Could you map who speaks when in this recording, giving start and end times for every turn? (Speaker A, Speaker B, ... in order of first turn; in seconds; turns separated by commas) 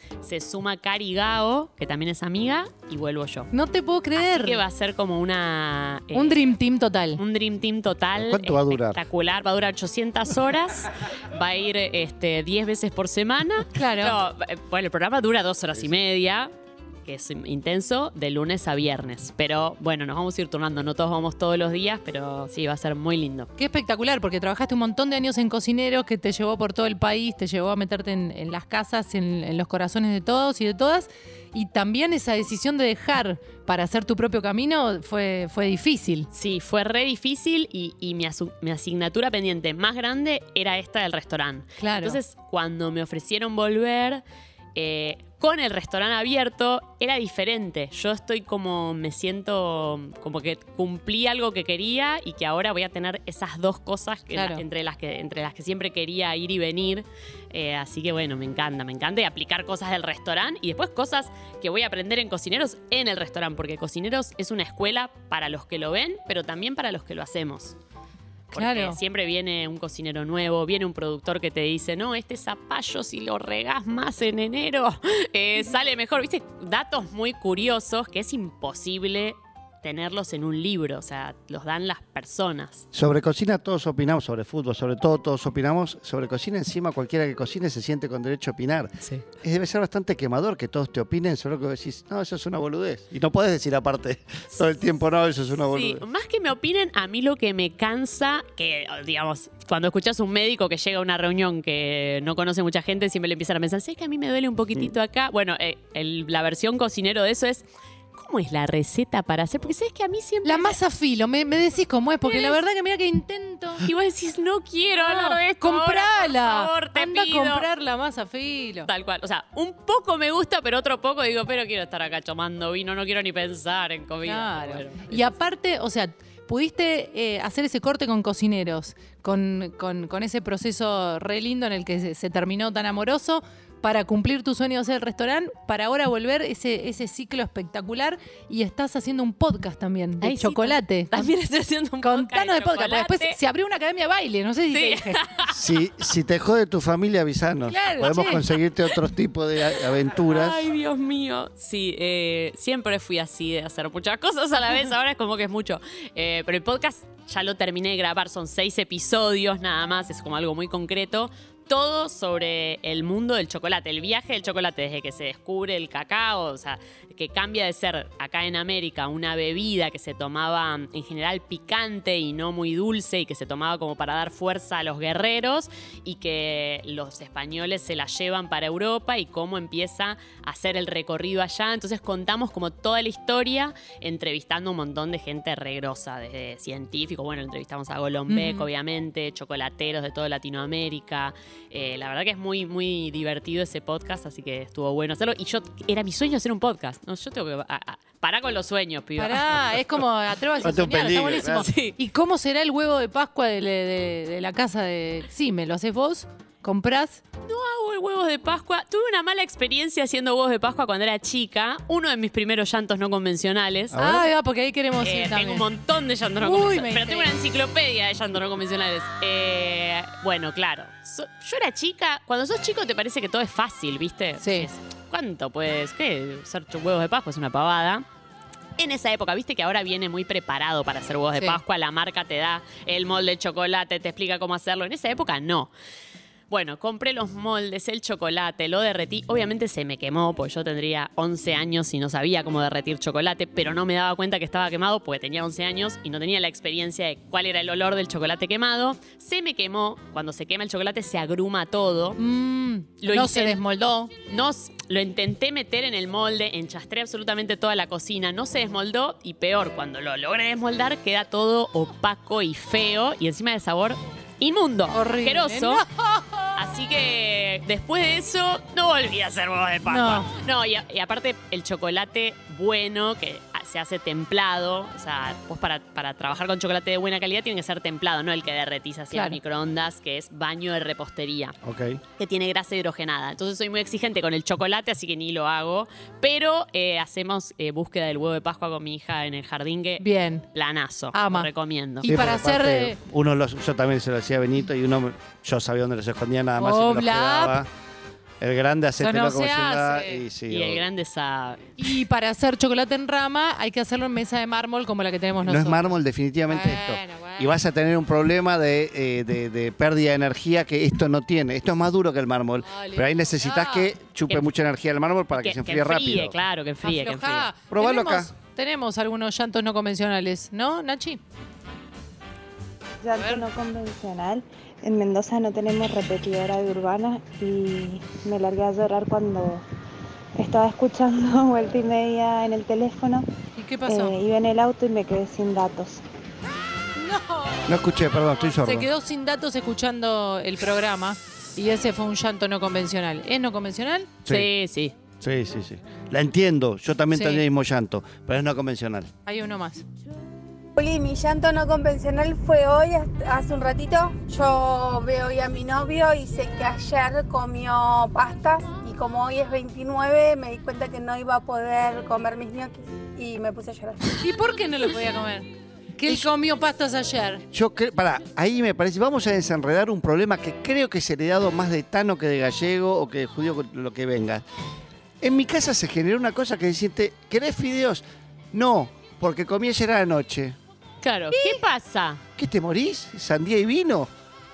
Speaker A: 0.2-3.5, Speaker B: 3.5-4.6, Speaker A: 4.2-6.5, Speaker B: 6.1-7.2, Speaker A: 7.2-16.5, Speaker C: 8.2-9.0, Speaker B: 13.7-14.2, Speaker A: 17.1-23.5, Speaker B: 23.6-36.3, Speaker A: 36.3-44.2, Speaker B: 41.8-42.2, Speaker A: 44.8-67.8, Speaker B: 54.3-54.6, Speaker A: 68.5-82.9, Speaker B: 68.5-69.0, Speaker C: 82.9-96.0, Speaker A: 95.7-110.8, Speaker B: 110.5-113.9, Speaker A: 112.3-112.6, Speaker A: 113.8-117.7, Speaker B: 115.0-118.9, Speaker A: 118.9-125.3, Speaker B: 124.2-141.3, Speaker A: 140.2-143.4, Speaker B: 142.0-145.2, Speaker A: 144.7-145.6, Speaker C: 145.5-150.6, Speaker B: 147.7-148.5, Speaker A: 150.2-199.6, Speaker B: 188.3-188.7, Speaker B: 199.2-207.2, Speaker C: 200.6-201.7, Speaker A: 201.3-201.9, Speaker A: 207.4-213.9, Speaker C: 213.9-214.3, Speaker B: 214.0-215.7, Speaker A: 215.0-228.1, Speaker B: 216.4-217.3, Speaker B: 224.4-224.7, Speaker A: 228.8-235.7, Speaker B: 231.3-231.6, Speaker A: 236.5-252.2, Speaker B: 252.2-254.1, Speaker A: 253.0-253.6, Speaker A: 254.3-265.9, Speaker B: 264.9-266.6, Speaker A: 266.6-281.6, Speaker B: 269.9-270.3, Speaker B: 279.1-279.4, Speaker C: 281.6-282.0, Speaker A: 282.2-292.1, Speaker B: 290.0-290.4, Speaker B: 291.1-291.5, Speaker B: 292.0-293.0, Speaker C: 292.1-297.7, Speaker B: 296.6-297.6, Speaker C: 298.4-300.9, Speaker B: 299.0-300.2, Speaker A: 300.5-301.9, Speaker B: 301.8-306.0, Speaker C: 305.4-316.4, Speaker B: 306.5-307.6, Speaker B: 312.6-313.9, Speaker A: 315.3-317.5, Speaker B: 316.8-321.2, Speaker C: 317.7-318.3, Speaker D: 323.0-329.6, Speaker B: 323.1-323.5, Speaker D: 330.4-333.3, Speaker B: 333.6-334.2, Speaker D: 333.9-336.0, Speaker B: 337.0-337.7, Speaker C: 337.7-338.9, Speaker B: 338.5-344.1, Speaker A: 344.3-344.9, Speaker C: 345.2-349.1, Speaker B: 347.1-347.4, Speaker B: 349.3-349.9, Speaker E: 350.8-364.3, Speaker B: 364.2-367.4, Speaker C: 367.5-374.4, Speaker C: 375.2-380.6, Speaker A: 381.0-382.2, Speaker B: 381.3-381.6, Speaker C: 382.4-384.1